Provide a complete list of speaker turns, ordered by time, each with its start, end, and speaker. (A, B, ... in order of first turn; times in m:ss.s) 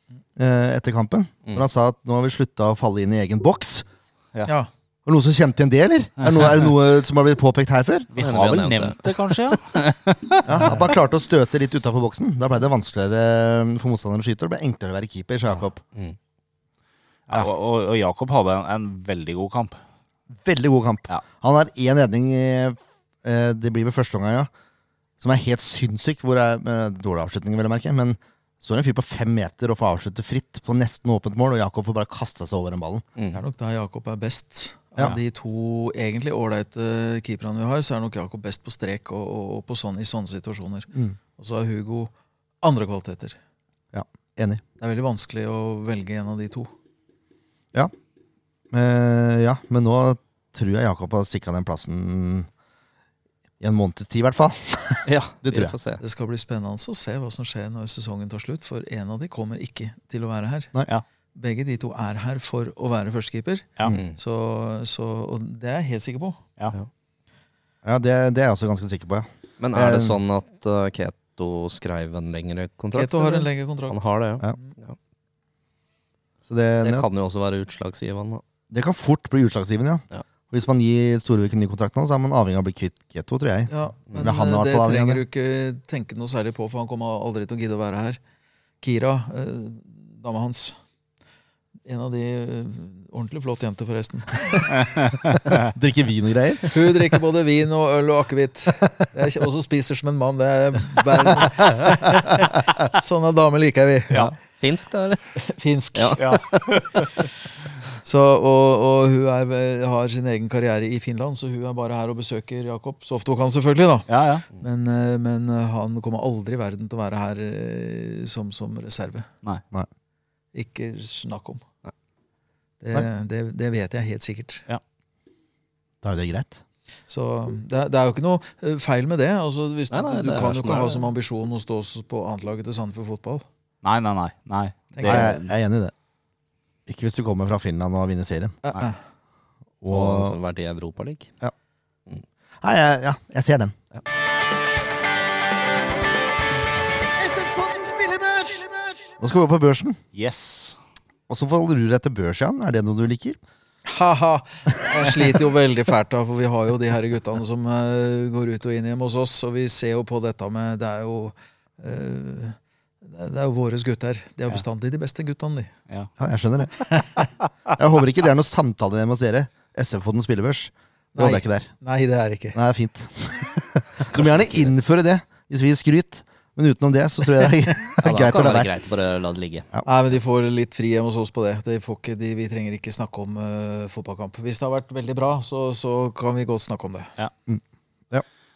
0:00.4-0:03.9 A
0:04.4-0:04.7 B
0:05.1-0:08.1 A
0:08.1-0:10.8 C
0:08.2-0:09.6 D
0:10.4-0:15.8 A
0:17.3-0:19.8 C
0:20.4-0:24.5 A
0:25.2-0:33.0 A
0:33.2-0:33.4 D
0:33.3-0:43.4 B
0:43.9-0:44.6 A
0:44.8-0:46.7 B
0:48.7-0:52.5 A
0:53.6-0:55.7 A
0:55.0-0:56.0 D
0:56.0-1:00.7 B
1:01.4-1:06.4 B
1:03.9-1:04.2 D
1:07.8-1:10.2 A
1:09.6-1:15.0 D
1:12.9-1:14.7 B
1:16.5-1:17.1 A
1:16.8-1:18.4 D
1:18.7-1:25.2 A
1:23.7-1:28.2 B
1:28.8-1:30.8 B
1:31.8-1:34.7 B
1:35.7-1:36.8 A
1:36.7-1:44.3 B
1:44.6-1:45.4 D
1:45.4-1:46.6 B
1:45.9-1:46.8 D
1:46.2-1:47.1 C
1:48.0-1:59.3 B
1:54.1-1:54.4 C
2:00.5-2:01.6 B
2:02.8-2:04.6 B
2:06.0-2:06.6 A
2:07.1-2:13.5 B
2:09.9-2:11.0 D
2:13.8-2:15.4 C
2:15.0-2:15.4 B
2:15.0-2:15.9 A
2:16.9-2:18.6 A
2:18.6-2:19.0 B
2:19.8-2:20.4 A
2:19.9-2:21.3 D
2:22.6-2:23.8 A
2:27.3-2:30.0 A
2:30.1-2:30.8 C
2:31.3-2:33.4 A
2:33.8-2:45.7 B
2:46.2-2:46.9 A
2:47.0-2:47.2 B
2:47.8-2:51.7 A
2:51.2-2:52.6 B
2:52.5-2:58.7 A
2:58.0-2:59.7 D
2:59.8-3:07.1 B
3:07.5-3:08.2 A